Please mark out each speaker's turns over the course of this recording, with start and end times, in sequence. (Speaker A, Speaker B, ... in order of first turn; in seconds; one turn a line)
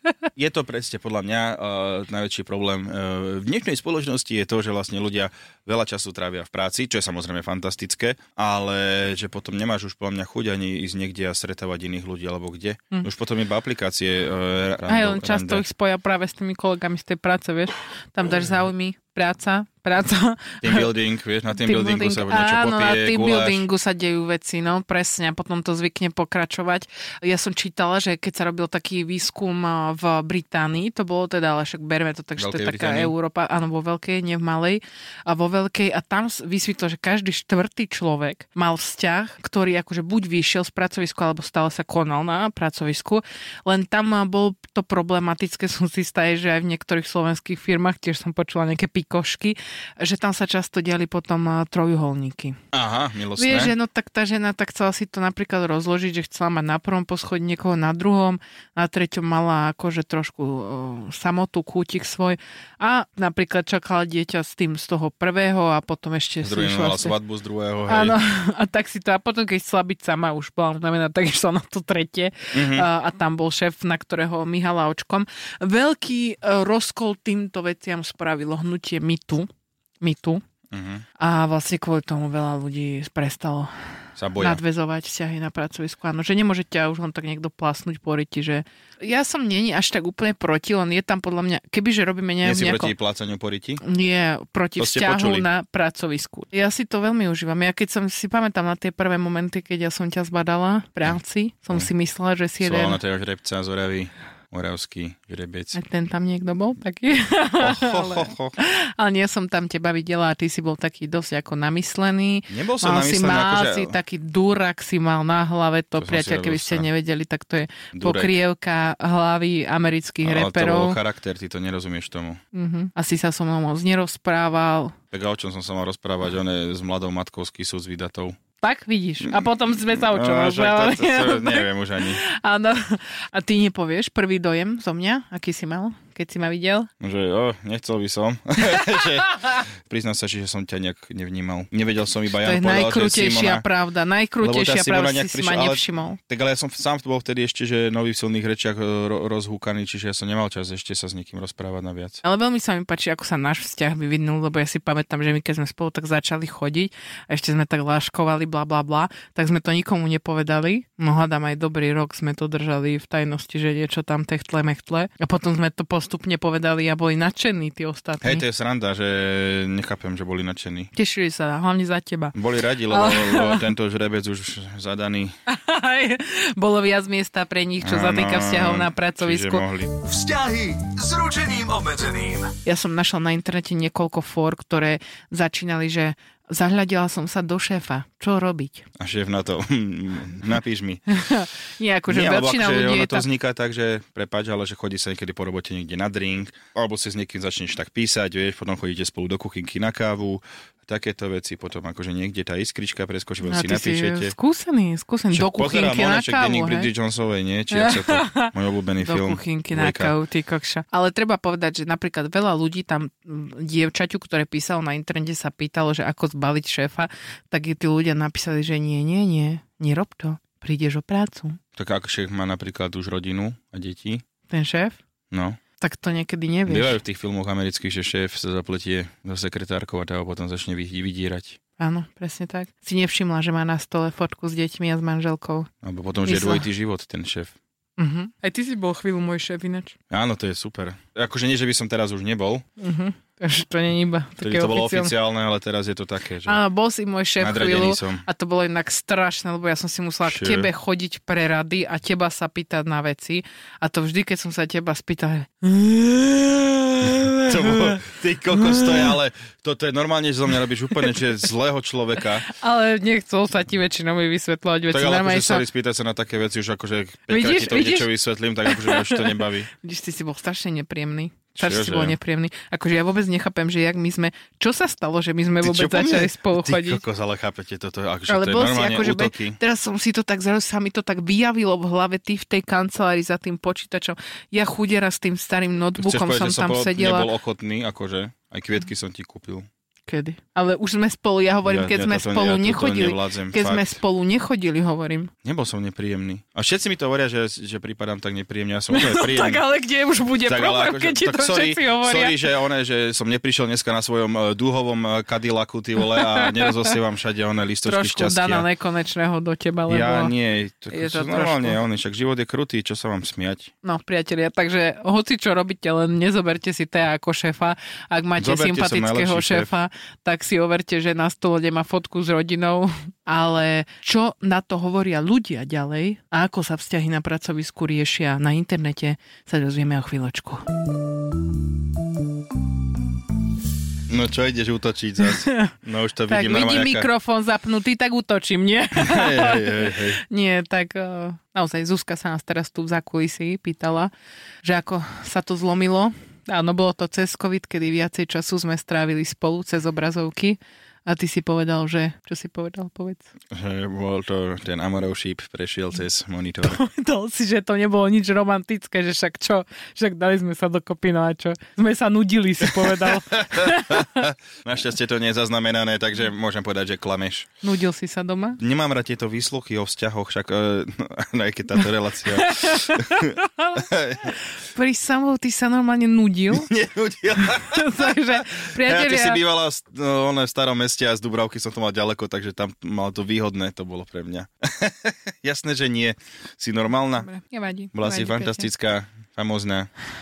Speaker A: 0.4-15.7
Speaker B: 14.9-20.9
Speaker A: 20.6-23.7
Speaker B: 21.5-52.6
Speaker A: 32.4-33.1
Speaker A: 52.7-53.7
Speaker B: 53.4-67.2
Speaker A: 66.4-68.2
Speaker B: 67.9-79.5
Speaker A: 72.5-72.9
Speaker B: 80.0-80.4
Speaker A: 80.7-81.0
Speaker B: 81.2-83.7
Speaker A: 84.2-84.6
Speaker B: 84.4-92.9
Speaker A: 92.4-93.8
Speaker B: 93.8-103.0
Speaker A: 94.8-95.5
Speaker A: 102.6-105.8
Speaker B: 105.7-121.0
Speaker A: 107.6-108.6
Speaker A: 112.5-114.0
Speaker A: 116.0-116.9
Speaker A: 117.9-118.3
Speaker A: 120.2-122.4
Speaker B: 122.5-125.0
Speaker A: 125.1-128.4
Speaker B: 128.6-136.9
Speaker A: 129.2-132.2
Speaker A: 137.0-143.7
Speaker B: 142.4-146.2
Speaker A: 144.4-152.2
Speaker B: 152.2-168.4
Speaker A: 168.2-170.9
Speaker B: 170.9-172.3
Speaker A: 172.3-175.3
Speaker B: 172.9-173.7
Speaker B: 175.5-179.7
Speaker A: 177.8-179.9
Speaker C: 180.0-182.5
Speaker B: 182.7-188.9
Speaker A: 189.0-191.1
Speaker B: 191.1-193.3
Speaker A: 192.1-204.3
Speaker B: 203.4-206.9
Speaker A: 205.3-210.1
Speaker B: 207.7-221.6
Speaker A: 221.8-224.2
Speaker B: 224.5-225.0
Speaker A: 225.3-225.6
Speaker B: 225.8-227.0
Speaker A: 226.7-231.6
Speaker B: 231.8-235.7
Speaker A: 235.8-237.6
Speaker B: 236.3-236.7
Speaker B: 238.0-240.0
Speaker A: 240.1-242.7
Speaker B: 242.8-245.1
Speaker A: 244.4-246.6
Speaker B: 246.5-259.2
Speaker A: 247.4-248.2
Speaker A: 250.2-250.7
Speaker A: 257.0-262.5
Speaker B: 262.5-265.6
Speaker A: 264.9-269.7
Speaker B: 267.3-268.1
Speaker B: 268.6-277.0
Speaker A: 271.6-272.2
Speaker A: 275.6-279.6
Speaker B: 278.3-287.3
Speaker A: 286.0-289.7
Speaker B: 290.1-295.3
Speaker A: 291.6-294.0
Speaker A: 295.4-299.6
Speaker B: 298.9-302.4
Speaker A: 300.4-308.7
Speaker B: 306.1-306.9
Speaker B: 307.9-310.3
Speaker A: 309.9-313.7
Speaker B: 310.9-311.8
Speaker B: 313.8-330.6
Speaker A: 318.4-319.7
Speaker A: 334.1-337.1
Speaker B: 335.3-335.7
Speaker B: 336.3-344.1
Speaker A: 338.9-340.2
Speaker B: 344.6-353.3
Speaker A: 353.5-356.8
Speaker B: 356.6-364.3
Speaker A: 362.6-367.5
Speaker B: 367.6-368.6
Speaker A: 368.6-374.4
Speaker B: 372.3-373.8
Speaker B: 374.7-376.7
Speaker A: 376.5-387.3
Speaker B: 377.4-379.4
Speaker B: 387.2-388.7
Speaker A: 387.9-389.9